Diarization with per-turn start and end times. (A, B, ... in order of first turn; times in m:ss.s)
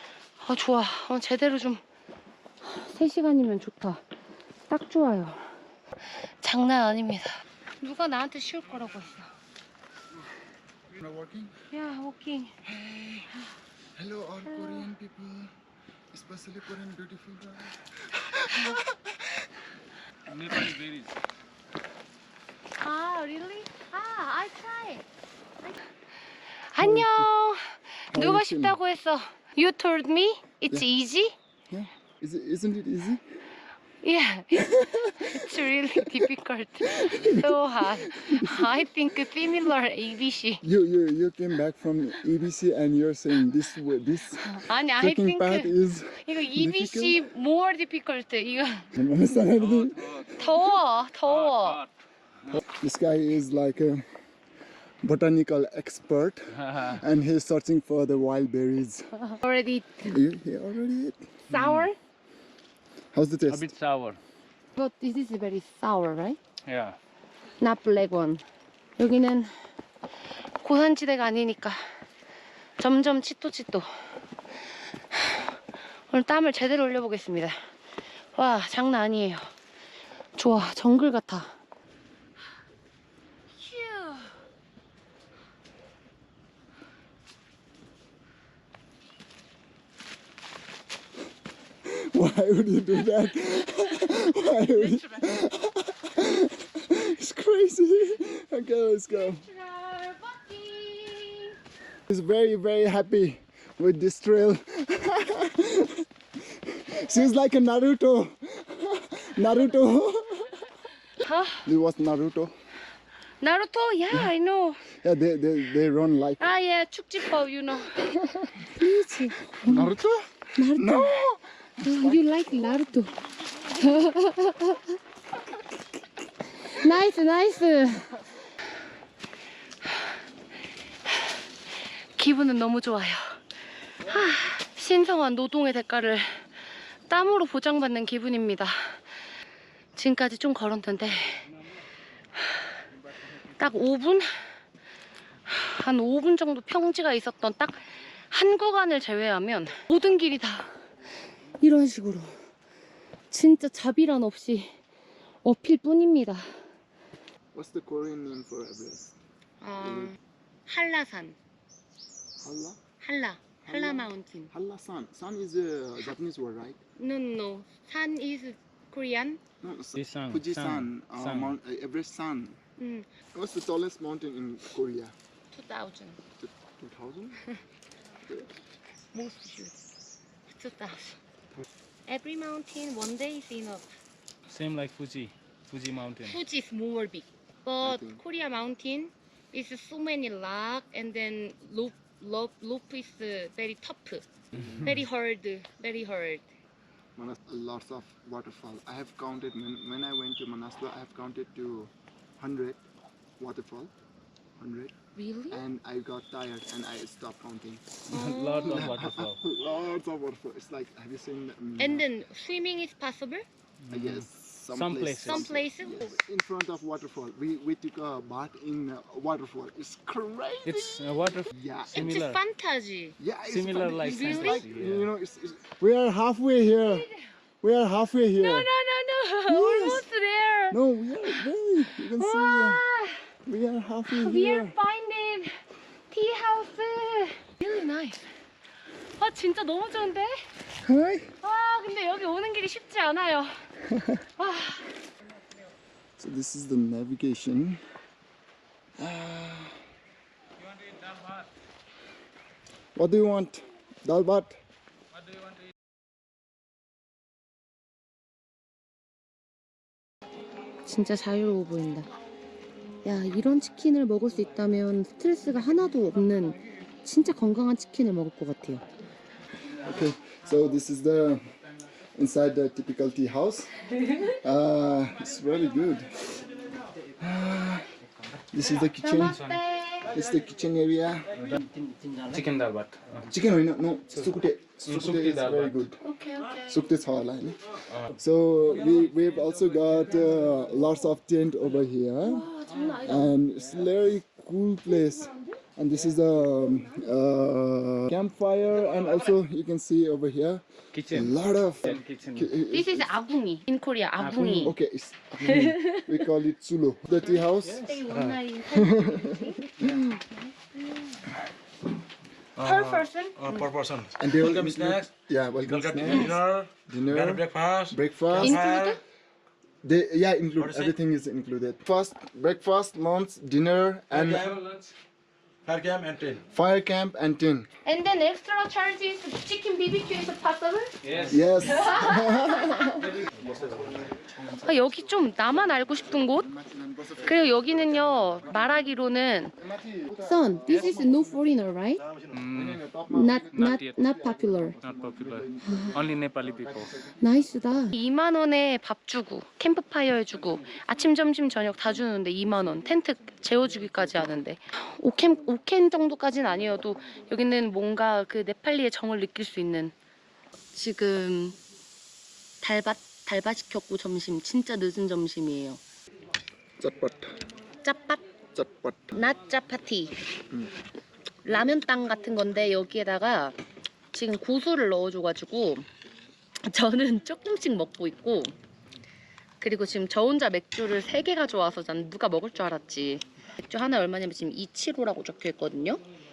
0:00.4-0:01.8 A
0:02.6-0:04.0 A
0:04.7-0:05.5 A
0:06.4-0:09.3 A
0:10.9-0:11.6 B
0:11.7-0:12.7 A
0:12.7-0:13.4 B
0:14.0-0:15.5 B
0:14.5-0:14.9 A
0:16.1-0:19.1 B
0:18.6-0:18.8 A
0:20.3-0:21.1 C
0:22.8-0:25.0 A
0:26.7-0:31.3 A
0:26.8-0:27.3 B
0:28.1-0:28.8 B
0:31.7-0:33.2 B
0:34.0-0:40.6 A
0:34.6-0:35.3 B
0:36.9-0:39.4 B
0:40.6-0:47.2 B
0:44.4-0:48.9 A
0:48.9-0:50.6 B
0:50.3-0:51.8 A
0:51.4-0:51.8 C
0:52.6-0:54.1 B
0:55.0-0:59.2 B
0:56.6-0:56.9 C
0:59.2-1:00.2 A
1:00.1-1:01.3 B
1:01.5-1:02.0 A
1:01.5-1:01.9 C
1:03.1-1:03.7 B
1:03.5-1:04.2 C
1:04.8-1:06.4 A
1:06.7-1:07.0 C
1:07.6-1:08.4 A
1:09.0-1:09.5 A
1:10.6-1:11.8 A
1:12.8-1:13.9 A
1:15.1-1:15.6 A
1:16.1-1:17.6 A
1:18.3-1:19.5 A
1:20.4-1:21.6 A
1:23.6-1:24.3 A
1:31.8-1:39.4 B
1:34.7-1:35.3 A
1:39.1-1:41.6 A
1:42.1-1:50.7 B
1:51.2-1:51.7 A
1:51.6-1:52.5 B
1:53.4-1:54.9 A
1:54.9-1:56.4 B
1:56.4-1:59.9 A
1:58.6-2:02.2 B
2:00.6-2:05.0 A
2:06.6-2:08.2 A
2:12.2-2:13.4 A
2:14.0-2:16.5 A
2:17.1-2:19.0 A
2:20.0-2:21.5 A
2:23.5-2:24.5 A
2:25.5-2:30.8 A
2:31.6-2:32.3 A
2:33.3-2:34.8 A
2:35.4-2:36.6 A
2:37.5-2:39.2 B
2:39.6-2:41.4 A
2:39.8-2:40.2 B
2:42.4-2:42.8 B
2:43.0-2:44.5 A
2:43.7-2:46.8 B
2:47.0-2:49.4 A
2:49.6-2:52.6 B
2:50.0-2:51.6 C
2:52.8-2:53.1 A
2:53.3-2:55.2 B
2:55.5-2:56.2 A
2:56.4-2:57.4 B
2:58.3-2:58.5 B
2:59.1-2:59.8 A
3:00.5-3:01.2 A
3:02.1-3:04.0 A
3:04.5-3:06.4 C
3:06.2-3:14.3 A
3:07.8-3:08.2 B
3:14.5-3:14.9 B
3:14.8-3:16.5 A
3:17.2-3:22.8 B
3:23.4-3:23.9 B
3:24.6-3:24.9 B
3:25.2-3:25.6 A
3:25.5-3:28.0 B
3:28.1-3:28.9 A
3:28.1-3:29.4 C
3:28.6-3:32.1 B
3:31.8-3:33.5 A
3:33.9-3:35.5 C
3:33.9-3:42.2 B
3:35.2-3:36.2 A
3:40.6-3:42.4 C
3:41.9-3:43.2 A
3:43.2-3:47.1 B
3:43.5-3:45.1 C
3:44.0-3:44.7 A
3:46.8-3:47.3 A
3:47.6-3:48.7 B
3:48.4-3:50.8 A
3:49.5-3:50.1 B
3:50.7-3:52.8 B
3:52.0-3:53.3 A
3:53.5-3:54.8 B
3:54.1-3:55.6 A
3:56.1-3:58.2 A
3:59.2-4:00.4 A
4:00.8-4:01.3 B
4:01.4-4:03.7 A
4:03.9-4:04.2 B
4:04.4-4:04.9 A
4:06.2-4:07.8 B
4:09.0-4:09.8 B
4:13.0-4:14.6 B
4:20.8-4:22.1 A
4:23.0-4:28.8 A
4:29.8-4:31.4 B
4:32.2-4:36.4 B
4:37.2-4:37.9 B
4:38.5-4:39.4 B
4:38.9-4:40.1 A
4:40.1-4:41.3 B
4:41.5-4:43.3 C
4:43.3-4:46.0 B
4:44.9-4:45.8 C
4:46.0-4:46.8 A
4:46.7-4:52.5 B
4:52.2-4:53.4 A
4:53.0-5:03.2 B
4:55.2-4:55.6 A
5:00.9-5:02.5 C
5:02.7-5:04.8 A
5:04.2-5:04.7 C
5:04.4-5:07.9 B
5:05.4-5:06.1 A
5:07.4-5:11.3 A
5:07.7-5:08.4 C
5:08.7-5:10.1 B
5:12.6-5:13.7 A
5:12.6-5:15.1 D
5:14.2-5:18.6 B
5:15.7-5:19.0 D
5:18.4-5:19.0 A
5:19.8-5:24.5 B
5:20.6-5:21.0 D
5:24.1-5:24.6 D
5:24.3-5:24.9 C
5:25.7-5:26.4 D
5:26.5-5:27.7 B
5:27.8-5:30.9 A
5:31.0-5:31.7 C
5:31.3-5:33.1 B
5:31.6-5:33.0 A
5:33.0-5:34.1 C
5:33.6-5:33.9 D
5:34.4-5:38.8 B
5:34.6-5:36.5 A
5:37.2-5:39.5 A
5:39.6-5:41.4 B
5:40.2-5:42.0 A
5:42.3-5:42.8 C
5:42.5-5:47.2 B
5:43.1-5:44.8 A
5:43.5-5:44.0 C
5:44.8-5:47.0 C
5:45.6-5:46.0 A
5:47.2-5:59.9 A
6:00.7-6:01.6 A
6:02.6-6:05.8 A
6:06.8-6:07.3 B
6:07.8-6:08.2 A
6:08.6-6:09.2 B
6:09.1-6:10.2 A
6:11.4-6:13.6 A
6:14.1-6:15.9 A
6:16.6-6:18.5 A
6:19.6-6:26.0 A